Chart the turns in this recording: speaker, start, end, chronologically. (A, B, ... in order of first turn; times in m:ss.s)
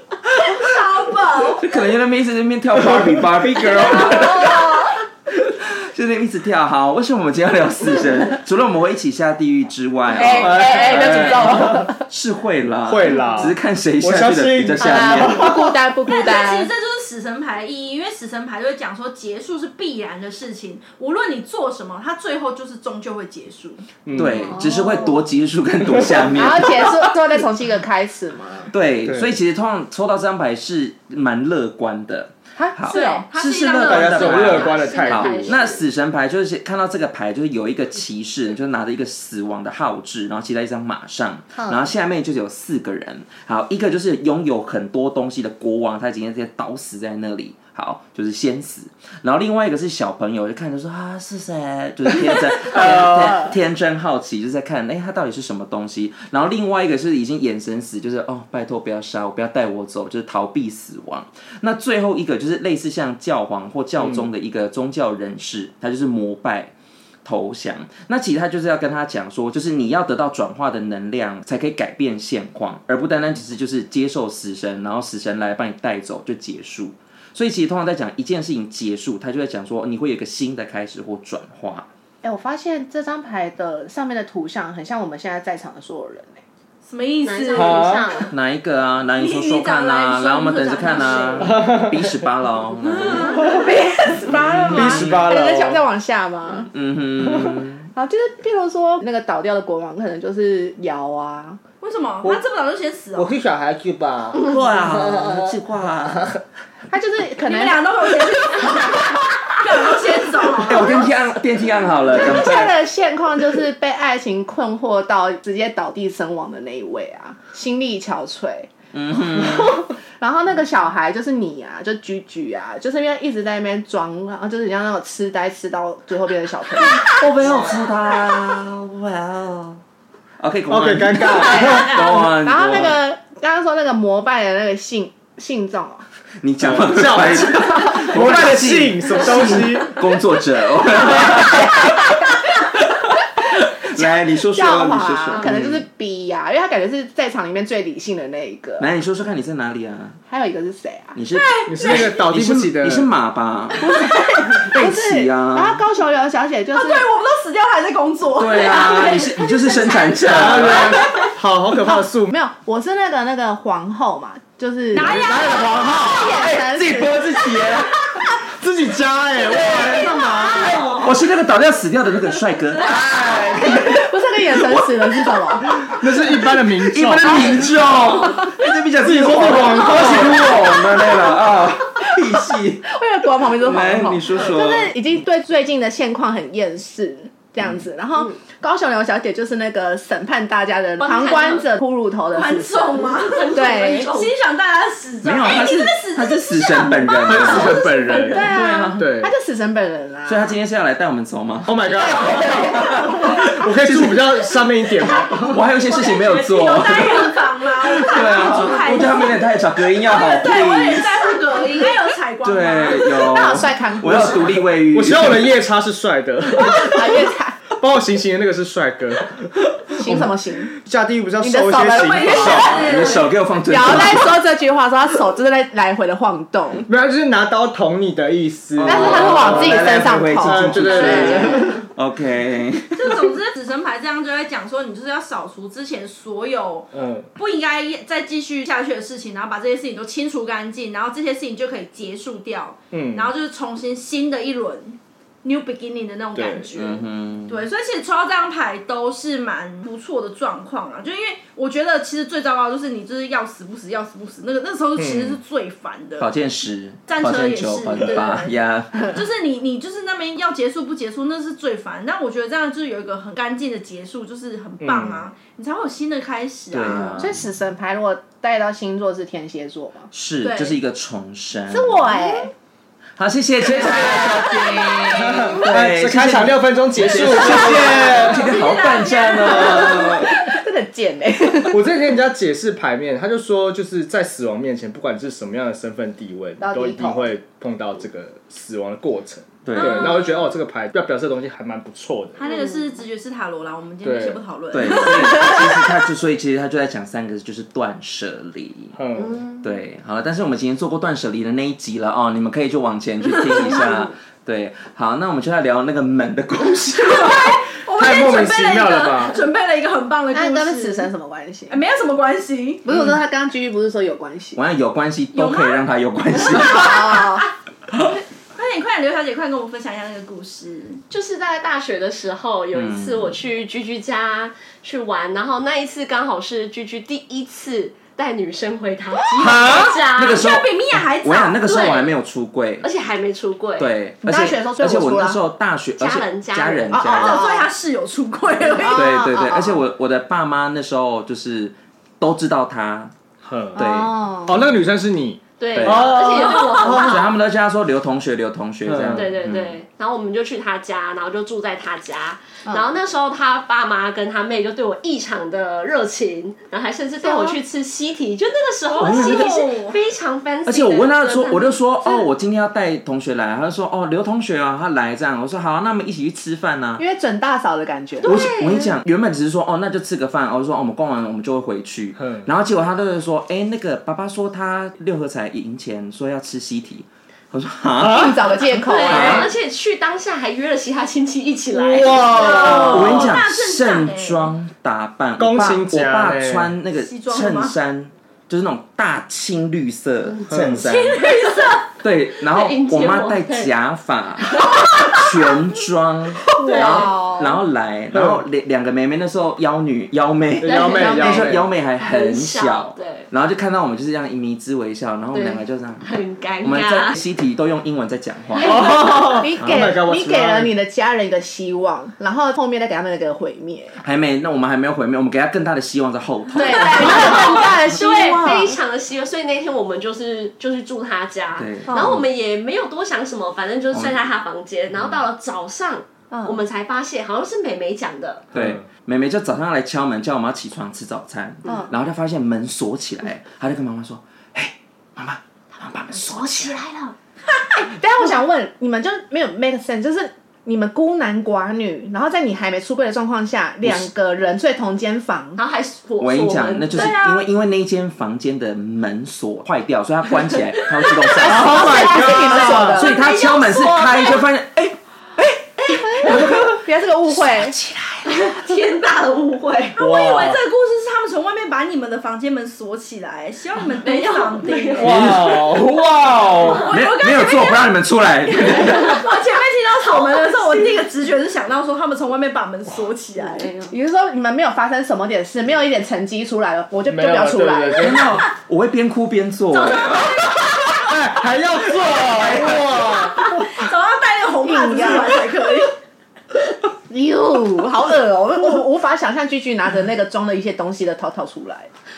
0:00.3-0:01.8 A
0:01.6-0:15.6 B
0:03.8-0:04.6 A
0:10.1-0:12.0 C
0:10.3-0:11.9 D
0:10.6-0:11.3 A
0:12.9-0:15.7 D
0:14.8-0:16.7 C
0:16.1-0:23.8 A
0:24.0-0:24.4 D
0:24.1-0:27.0 B
0:24.5-0:25.2 C
0:26.2-0:28.7 C
0:28.7-1:06.7 B
0:29.0-0:29.3 D
0:32.6-0:33.2 C
0:32.9-0:35.5 A
0:33.7-0:35.8 D
0:35.0-0:35.6 E
1:04.0-1:04.3 D
1:07.2-1:21.9 B
1:22.2-1:26.4 C
1:26.8-1:28.0 A
1:27.2-1:28.3 E
1:27.5-1:28.1 D
1:28.3-1:33.5 B
1:29.2-1:31.6 A
1:31.4-1:32.1 D
1:33.0-1:33.5 A
1:33.4-1:36.7 C
1:34.3-1:35.3 B
1:34.6-1:35.8 D
1:36.7-1:37.9 B
1:37.3-1:37.6 D
1:37.9-1:41.6 C
1:41.8-1:43.4 A
1:43.2-1:45.4 D
1:44.4-1:46.3 B
1:46.9-1:47.8 C
1:47.4-1:51.1 A
1:50.6-1:52.8 B
1:50.8-1:51.1 C
1:52.1-1:58.7 C
1:58.9-1:59.8 B
1:59.4-2:07.0 C
2:06.8-2:09.8 B
2:07.4-2:07.8 E
2:10.4-2:13.0 B
2:10.7-2:12.1 D
2:11.5-2:16.0 C
2:16.4-2:22.3 B
2:16.6-2:20.0 D
2:21.2-2:22.0 C
2:23.5-2:25.8 B
2:23.9-2:28.9 C
2:28.8-2:30.2 B
2:30.3-2:31.2 C
2:31.1-2:33.9 B
2:31.3-2:32.2 A
2:31.7-2:33.1 D
2:33.8-2:37.0 C
2:33.9-2:34.2 A
2:34.6-2:35.8 B
2:36.7-2:41.3 A
2:38.3-2:41.0 B
2:40.2-2:42.3 D
2:41.9-2:45.3 C
2:44.9-2:46.5 A
2:45.0-2:46.3 D
2:46.0-2:47.4 C
2:46.5-2:47.9 B
2:48.4-2:51.0 D
2:49.8-2:50.7 C
2:50.6-2:51.0 E
2:50.8-3:02.9 B
2:53.6-2:55.9 C
2:55.8-2:57.4 D
2:59.0-3:00.6 D
3:00.0-3:00.9 C
3:02.3-3:14.1 C
3:03.6-3:04.9 B
3:11.0-3:11.7 E
3:12.3-3:18.9 A
3:13.0-3:14.3 E
3:15.2-3:19.1 B
3:17.2-3:19.3 D
3:17.8-3:18.3 E
3:18.3-3:20.5 C
3:20.2-3:24.5 B
3:21.6-3:25.6 D
3:22.2-3:23.1 C
3:25.1-3:29.4 A
3:25.4-3:31.3 B
3:30.0-3:33.3 A
3:32.4-3:35.5 B
3:33.0-3:34.5 C
3:34.2-3:43.1 D
3:36.6-3:37.6 C
3:39.9-3:40.7 C
3:41.4-3:42.7 C
3:41.9-3:43.3 A
3:42.7-3:44.4 B
3:43.6-3:46.9 C
3:46.9-3:51.8 D
3:48.8-3:53.3 B
3:48.8-3:51.8 C
3:52.9-4:16.3 A
3:56.9-3:57.3 D
4:02.9-4:03.3 D
4:06.3-4:06.7 D
4:06.7-4:07.7 B
4:15.0-4:15.4 D
4:16.2-4:19.2 B
4:17.1-4:27.2 A
4:24.8-4:25.3 D
4:26.7-4:27.4 B
4:27.1-4:30.1 C
4:30.1-4:32.1 B
4:30.4-4:30.8 A
4:31.7-4:32.5 C
4:33.2-4:40.3 B
4:33.8-4:34.3 D
4:34.0-4:35.4 A
4:35.1-4:38.4 D
4:37.4-4:40.4 A
4:39.4-4:41.9 C
4:41.7-4:52.4 D
4:46.6-4:47.3 C
4:49.6-4:50.2 B
4:49.8-4:50.1 A
4:52.4-4:55.6 A
4:52.4-4:52.7 E
4:54.0-4:54.4 D
4:54.7-4:58.9 B
4:59.0-4:59.4 D
4:59.2-4:59.6 E
4:59.6-5:07.6 B
5:03.3-5:03.8 A
5:07.0-5:11.1 A
5:07.9-5:09.4 D
5:10.3-5:11.8 C
5:11.7-5:12.8 A
5:12.8-5:14.6 C
5:14.6-5:17.3 B
5:15.3-5:15.8 A
5:16.5-5:17.5 C
5:18.5-5:21.0 A
5:21.1-5:30.4 E
5:22.7-5:23.4 B
5:29.2-5:32.1 A
5:29.4-5:29.9 D
5:30.1-5:32.9 B
5:32.8-5:33.9 E
5:33.8-5:37.5 B
5:34.2-5:35.4 C
5:36.0-5:37.0 E
5:36.9-5:37.7 C
5:37.1-5:39.1 A
5:38.6-5:39.8 C
5:38.9-5:43.1 B
5:43.4-5:43.8 D
5:43.7-5:44.1 B
5:43.8-5:44.7 C
5:44.4-5:47.1 D
5:45.6-5:47.2 E
5:45.8-5:46.1 B
5:46.2-5:47.1 A
5:46.4-5:47.1 C
5:47.0-5:49.8 B
5:48.8-5:49.3 D
5:49.1-6:02.0 E
5:57.2-5:57.6 C
5:58.9-6:00.0 A
5:59.0-5:59.6 B
6:00.6-6:07.0 B
6:07.0-6:08.4 C
6:08.2-6:08.9 E
6:08.2-6:18.5 B
6:12.2-6:12.4 D
6:18.0-6:18.4 D
6:18.0-6:19.5 C
6:18.8-6:23.1 E
6:19.0-6:19.5 B
6:21.7-6:23.4 D
6:22.3-6:24.5 A
6:22.3-6:23.0 C
6:22.9-6:31.2 B
6:25.4-6:26.8 D
6:26.9-6:27.7 A
6:30.5-6:30.8 D
6:30.8-6:31.9 A
6:31.0-6:31.8 E
6:32.0-6:46.0 B
6:32.4-6:33.7 E
6:34.5-6:35.3 E
6:36.5-6:37.2 E
6:36.6-6:37.6 C
6:38.1-6:38.4 D
6:40.6-6:41.7 D
6:40.7-6:41.5 C
6:42.0-6:43.3 E
6:45.3-6:47.2 E
6:46.6-6:50.0 B
6:48.6-6:50.7 D
6:48.6-6:54.0 C
6:54.0-6:57.8 B
6:56.5-7:08.4 E
6:56.6-6:58.7 C
7:01.6-7:02.2 B
7:03.9-7:04.2 B
7:06.3-7:06.6 C
7:08.5-7:08.8 D
7:08.5-7:16.8 B
7:16.3-7:17.1 E
7:17.7-7:25.6 C
7:25.6-7:27.2 E
7:26.2-7:32.2 B
7:26.9-7:27.4 A
7:31.0-7:31.7 E
7:31.4-7:33.1 C
7:31.4-7:33.0 D
7:32.3-7:34.4 A
7:32.8-7:38.5 B
7:33.6-7:34.0 E
7:35.9-7:37.8 C
7:38.2-7:40.0 E
7:40.0-7:45.2 A
7:40.0-7:40.6 D
7:44.0-7:45.6 E
7:45.0-7:46.9 D
7:45.0-7:45.8 B
7:46.7-7:47.9 A
7:46.9-7:49.2 B
7:48.7-7:53.7 A
7:50.1-7:50.9 E
7:53.4-7:53.9 E
7:53.9-7:58.2 C
7:57.0-7:58.4 D
7:58.0-8:00.5 B
7:59.8-8:00.1 E
8:00.9-8:03.8 D
8:03.3-8:06.0 A
8:04.6-8:05.5 C
8:07.1-8:11.9 C